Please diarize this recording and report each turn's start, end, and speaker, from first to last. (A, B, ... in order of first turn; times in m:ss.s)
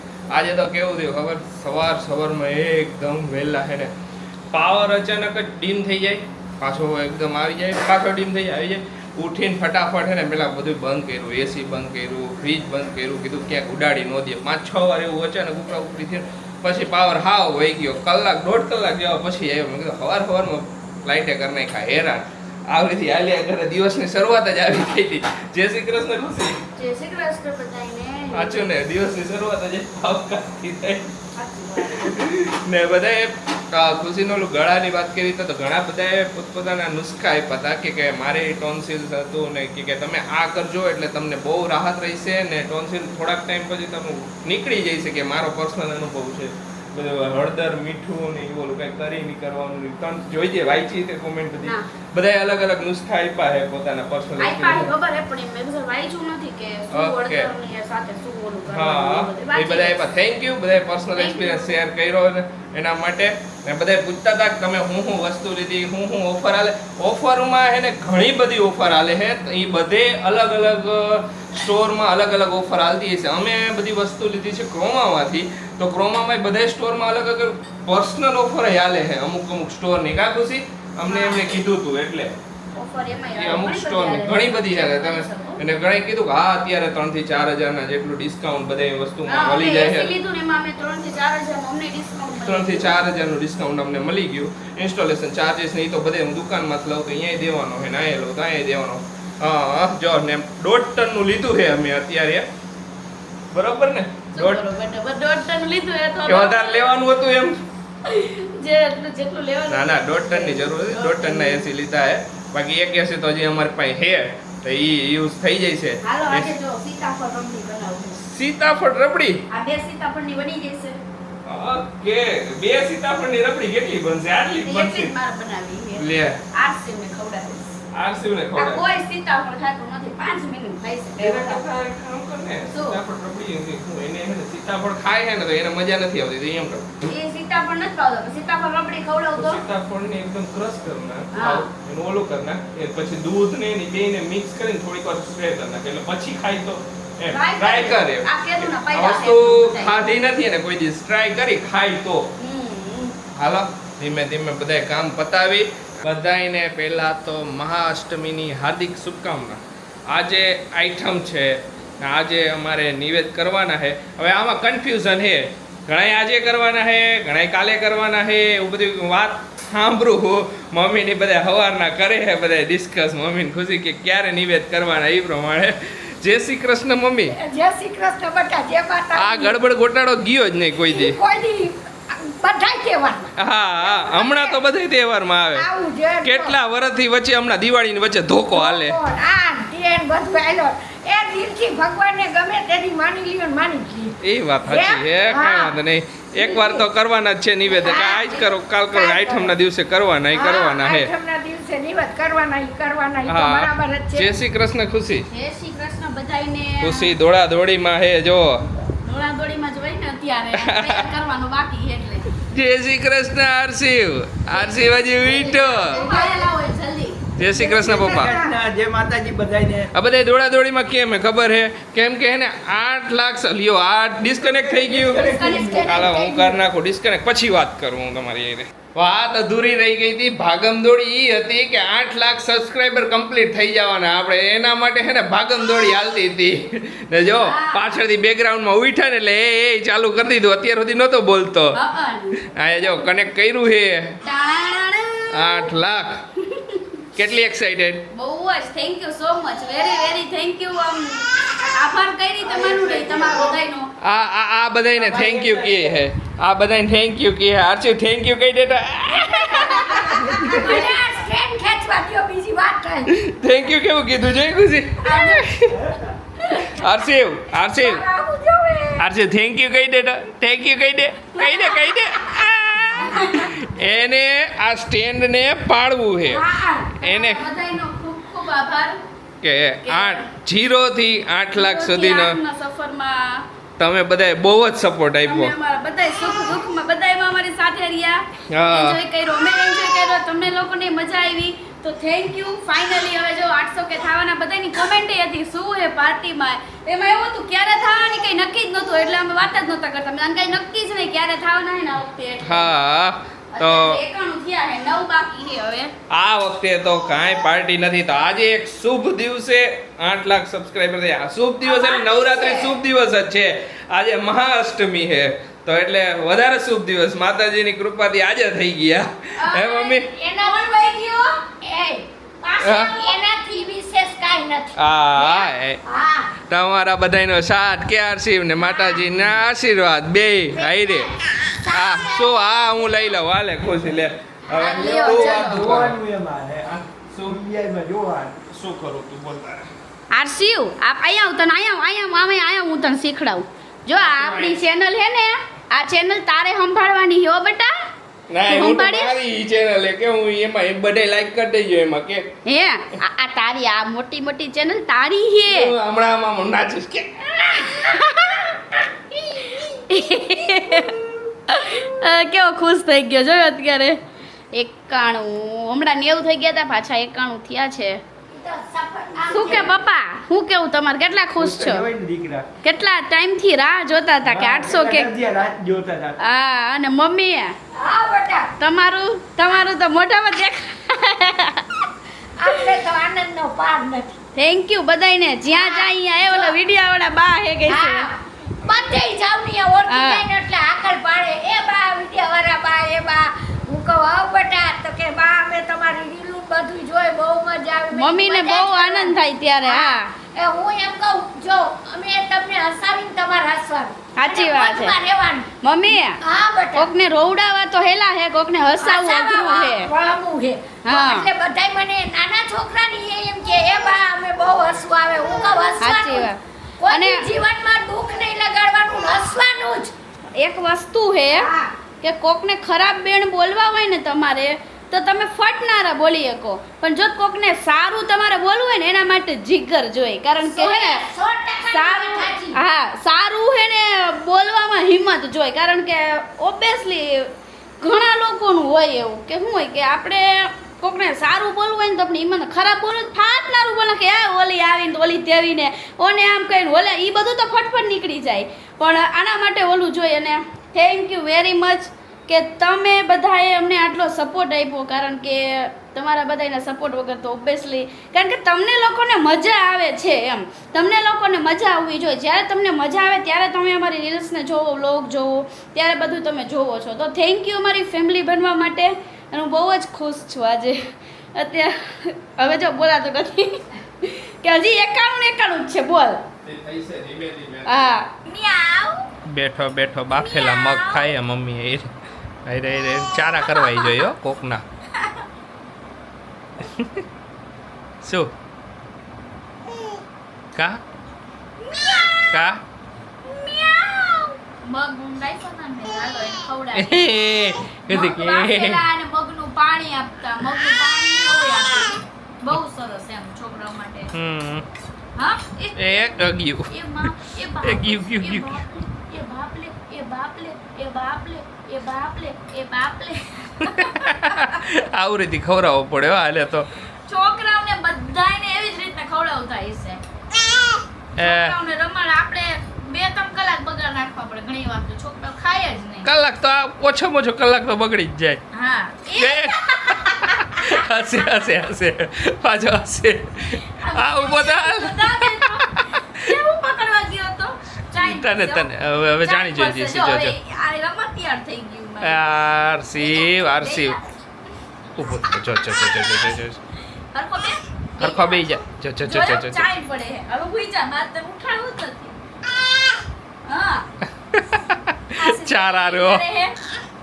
0:00.3-0:03.9 A
0:04.5-0:26.6 A
0:26.8-0:28.6 B
0:28.3-0:31.1 A
0:31.4-0:32.3 B
0:31.9-0:54.9 A
0:54.4-1:00.0 B
0:56.9-0:57.5 A
0:58.7-1:22.4 A
1:01.2-1:01.8 B
1:21.1-1:21.4 B
1:22.8-1:25.6 B
1:23.4-1:30.2 A
1:29.3-1:33.0 B
1:32.4-1:42.5 A
1:43.5-1:44.6 A
1:44.4-1:46.9 B
1:46.3-1:47.6 A
1:48.0-1:51.7 B
1:49.7-1:56.5 A
1:56.0-1:58.2 B
1:58.2-1:59.4 A
1:59.5-2:01.0 B
2:01.4-2:05.1 A
2:04.6-2:07.8 B
2:06.0-2:06.4 A
2:07.9-2:08.8 A
2:08.6-2:11.6 B
2:11.2-2:17.0 A
2:12.7-2:13.0 B
2:17.0-2:19.6 B
2:19.4-2:32.3 A
2:21.3-2:21.7 B
2:27.3-2:30.0 B
2:32.4-2:33.2 B
2:33.4-2:57.4 A
2:57.3-2:59.6 C
2:59.1-3:01.2 A
3:00.9-3:04.6 C
3:03.4-3:05.7 A
3:05.5-3:06.6 C
3:06.2-3:09.0 A
3:08.5-3:15.8 C
3:14.2-3:21.1 A
3:16.4-3:16.9 C
3:17.7-3:19.6 C
3:20.3-3:24.3 C
3:23.3-3:25.3 A
3:25.3-3:27.1 B
3:26.8-3:28.6 A
3:29.0-3:32.3 B
3:30.6-3:31.1 A
3:32.4-3:36.0 A
3:34.5-3:37.2 B
3:35.9-3:36.5 C
3:37.4-3:38.4 A
3:37.6-3:39.9 D
3:37.6-3:38.5 C
3:39.9-4:01.8 A
3:44.4-3:45.9 D
3:45.1-3:46.2 B
3:45.2-3:46.6 C
3:57.3-3:58.0 B
4:01.7-4:02.4 B
4:02.5-4:04.2 A
4:04.2-4:05.7 B
4:05.3-4:06.2 A
4:06.4-4:07.0 B
4:07.2-4:08.1 A
4:08.1-4:13.9 B
4:12.4-4:13.5 D
4:14.0-4:20.9 A
4:14.9-4:16.0 D
4:19.1-4:23.1 C
4:19.5-4:20.8 B
4:19.8-4:20.2 D
4:23.1-4:25.9 A
4:25.0-4:25.4 C
4:26.6-4:28.0 A
4:27.5-4:29.1 C
4:29.0-4:36.4 A
4:31.4-4:32.2 B
4:32.9-4:33.6 B
4:36.3-4:39.0 B
4:37.0-4:37.5 A
4:39.4-4:42.4 A
4:39.8-4:40.3 B
4:41.6-4:43.4 B
4:43.8-4:45.5 A
4:45.3-5:02.7 B
4:48.5-4:49.0 A
5:02.4-5:04.0 A
5:03.5-5:05.9 B
5:06.1-5:20.1 A
5:11.6-5:12.7 B
5:19.4-5:21.4 B
5:20.1-5:20.7 C
5:21.6-5:26.3 C
5:22.4-5:22.9 B
5:22.6-5:22.9 A
5:24.8-5:25.8 A
5:26.5-5:31.2 A
5:28.6-5:29.1 B
5:30.6-5:32.8 C
5:31.7-5:36.0 A
5:34.6-5:35.7 B
5:34.8-5:36.7 D
5:36.6-5:37.4 A
5:37.3-5:38.4 D
5:38.4-5:39.7 A
5:40.1-5:47.7 B
5:44.0-5:44.6 A
5:48.3-5:52.3 A
5:48.5-5:49.2 B
5:52.5-5:55.7 B
5:55.5-5:58.1 A
5:57.5-5:58.6 B
5:59.3-6:04.0 B
6:04.5-6:08.0 B
6:08.3-6:09.8 C
6:09.3-6:11.9 B
6:11.4-6:12.5 D
6:12.6-6:15.1 B
6:14.2-6:16.2 D
6:16.2-6:17.6 B
6:17.7-6:18.5 C
6:18.6-6:21.9 B
6:22.4-6:24.2 C
6:22.4-6:22.7 B
6:24.4-6:28.1 B
6:25.5-6:26.6 C
6:27.6-6:45.5 C
6:29.9-6:30.3 B
6:37.9-6:40.1 B
6:44.2-6:45.0 B
6:45.6-6:46.2 B
6:46.2-6:46.9 C
6:46.7-6:49.9 B
6:48.8-6:59.9 C
6:50.8-6:51.3 B
6:55.8-6:57.3 B
7:00.4-7:01.5 B
7:01.3-7:01.7 C
7:02.0-7:11.0 B
7:10.4-7:12.6 C
7:11.7-7:50.8 B
7:51.4-7:56.2 B
7:56.4-7:57.9 A
7:57.7-7:59.1 B
7:59.3-8:01.9 A
8:00.1-8:01.1 B
8:02.5-8:04.6 A
8:03.5-8:04.0 B
8:04.9-8:05.2 B
8:06.6-8:07.0 A
8:08.0-8:08.3 A
8:10.6-8:10.8 A
8:11.6-8:12.5 B
8:12.3-8:12.6 A
8:13.2-8:17.1 B
8:16.8-8:18.8 A
8:17.9-8:24.1 B
8:24.1-8:24.7 A
8:25.2-8:34.7 B
8:25.8-8:28.6 A
8:33.6-8:36.7 A
8:37.1-8:40.0 B
8:41.2-8:41.6 A
8:41.2-8:46.1 B
8:46.0-8:48.4 A
8:48.5-8:51.3 B
8:49.2-8:56.0 A
8:53.6-8:58.7 B
8:57.9-9:00.4 A
8:59.2-9:02.2 B
9:02.0-9:04.0 A
9:03.0-9:04.0 B
9:05.0-9:06.6 A
9:05.0-9:05.3 B
9:07.0-9:12.2 B
9:08.0-9:09.6 A
9:13.5-9:13.9 B
9:14.3-9:16.2 A
9:15.2-9:16.6 B